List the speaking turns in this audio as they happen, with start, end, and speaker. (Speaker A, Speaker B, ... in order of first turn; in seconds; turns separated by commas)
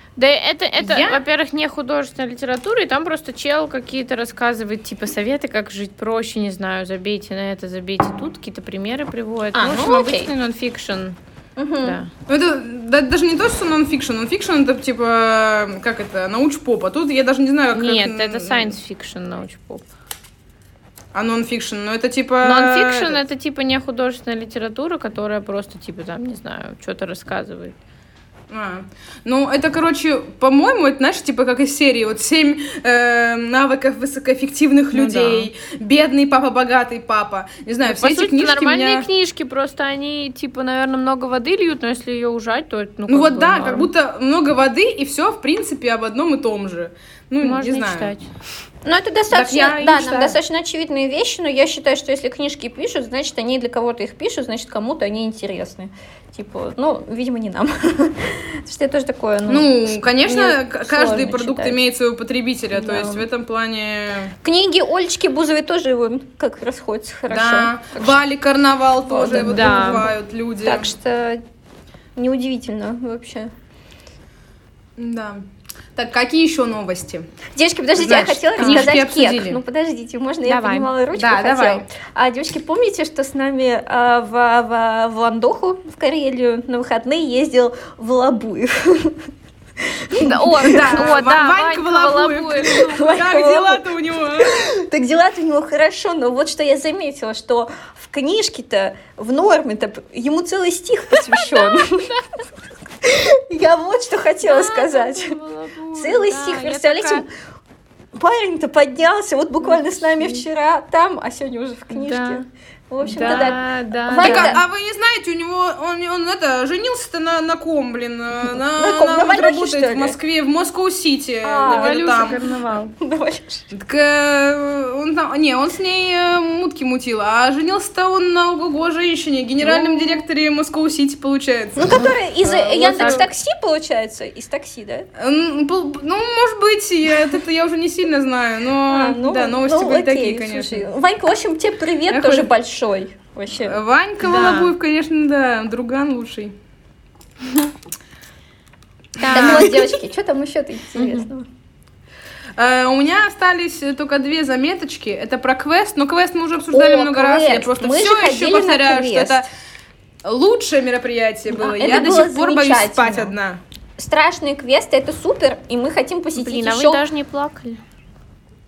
Speaker A: 0.2-11.2, Speaker B: 0.8-1.2, Speaker C: 9.5-10.3, Speaker C: 11.6-12.0, Speaker A: 11.8-12.1, Speaker B: 12.3-18.8, Speaker A: 17.7-19.9, Speaker B: 21.1-23.2, Speaker A: 22.4-27.8, Speaker B: 28.5-39.1, Speaker A: 34.9-35.5, Speaker A: 37.9-43.9, Speaker B: 43.1-48.1, Speaker A: 47.4-48.3, Speaker C: 48.8-61.8, Speaker B: 49.3-50.4, Speaker B: 59.5-64.3, Speaker C: 62.8-63.2, Speaker C: 64.4-68.2, Speaker B: 67.3-70.9, Speaker C: 69.1-70.1, Speaker A: 69.3-70.1, Speaker C: 70.6-71.4, Speaker C: 72.2-73.5, Speaker B: 75.0-75.4, Speaker B: 76.0-77.3, Speaker C: 77.5-89.3, Speaker B: 78.0-79.6, Speaker A: 78.6-78.9, Speaker A: 80.5-80.9, Speaker B: 81.1-81.9, Speaker C: 89.8-91.0, Speaker A: 90.1-92.9, Speaker B: 90.7-94.6, Speaker C: 92.8-93.9, Speaker C: 94.4-102.1, Speaker A: 101.5-102.2, Speaker C: 103.0-105.4, Speaker A: 104.4-107.2, Speaker C: 106.0-107.3, Speaker C: 108.1-114.6, Speaker A: 109.6-110.4, Speaker A: 111.9-112.4, Speaker A: 113.0-114.5, Speaker B: 113.1-113.5, Speaker B: 114.2-122.4, Speaker C: 118.8-120.2, Speaker C: 121.4-122.2, Speaker A: 121.6-122.9, Speaker C: 123.0-123.7, Speaker B: 123.7-132.2, Speaker C: 129.6-130.2, Speaker C: 131.8-135.1, Speaker A: 132.4-133.3, Speaker B: 135.2-140.9, Speaker C: 138.9-143.8, Speaker B: 142.1-142.5, Speaker B: 143.6-146.5, Speaker A: 144.2-144.7, Speaker B: 149.2-149.9, Speaker A: 149.2-149.7, Speaker C: 149.3-151.5, Speaker A: 151.0-151.2, Speaker B: 152.6-159.5, Speaker C: 156.7-159.4, Speaker B: 160.2-163.6, Speaker C: 161.5-163.3, Speaker C: 164.0-167.0, Speaker A: 166.4-167.8